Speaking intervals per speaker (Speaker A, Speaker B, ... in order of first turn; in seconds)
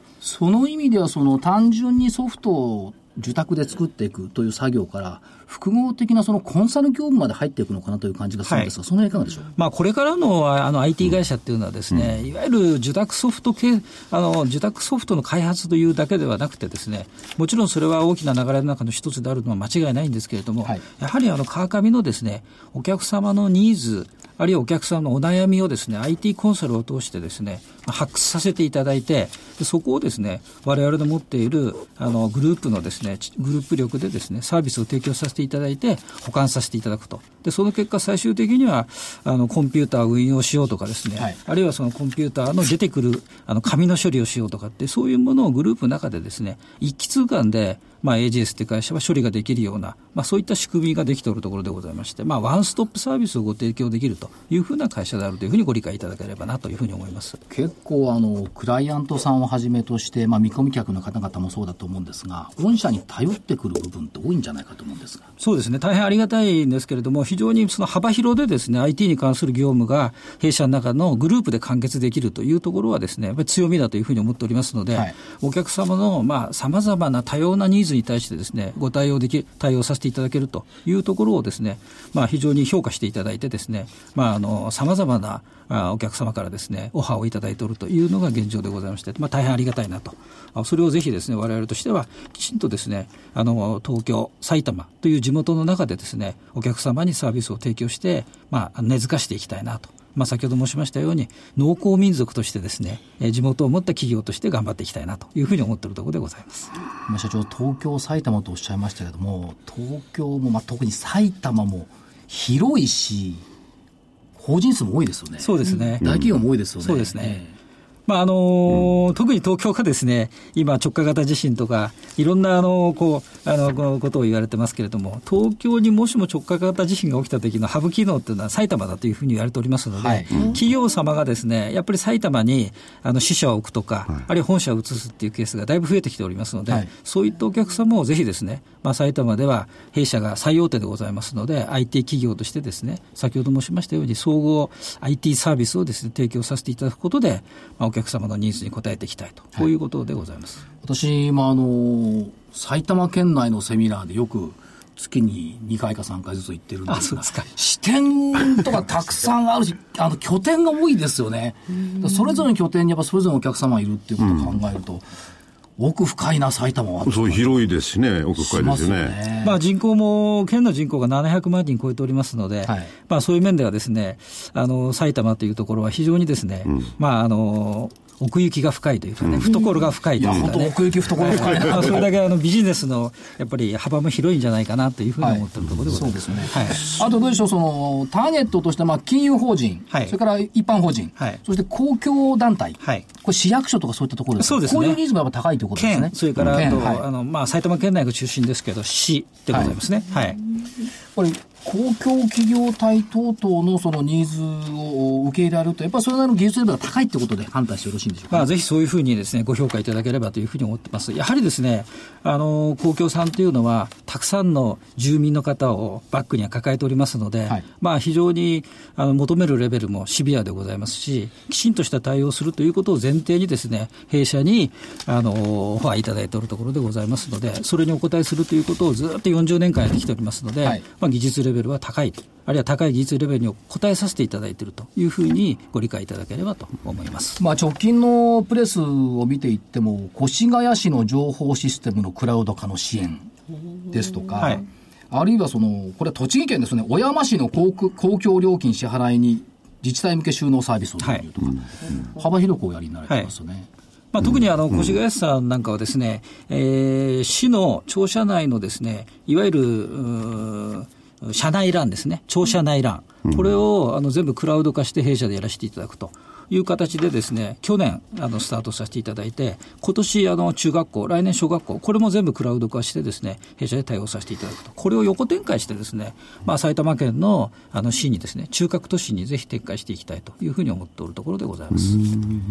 Speaker A: 0.2-9.5, 57.5-65.3, 107.1-113.4, 114.3-117.5, 129.9-130.4, 150.8-165.1, 165.8-167.7, 168.4-169.6, 180.2-182.1, 185.2-197.0, 199.5-199.8, 201.1-208.5, 237.4-243.3, 243.9-253.7
Speaker B: 8.4-8.7, 9.5-57.4, 65.4-106.7, 115.4-116.1, 116.8-117.4, 118.1-150.6, 156.9-157.4, 169.4-187.0, 194.4-195.0, 195.8-200.4, 208.3-237.4, 254.1-282.2
Speaker C: 167.0-169.2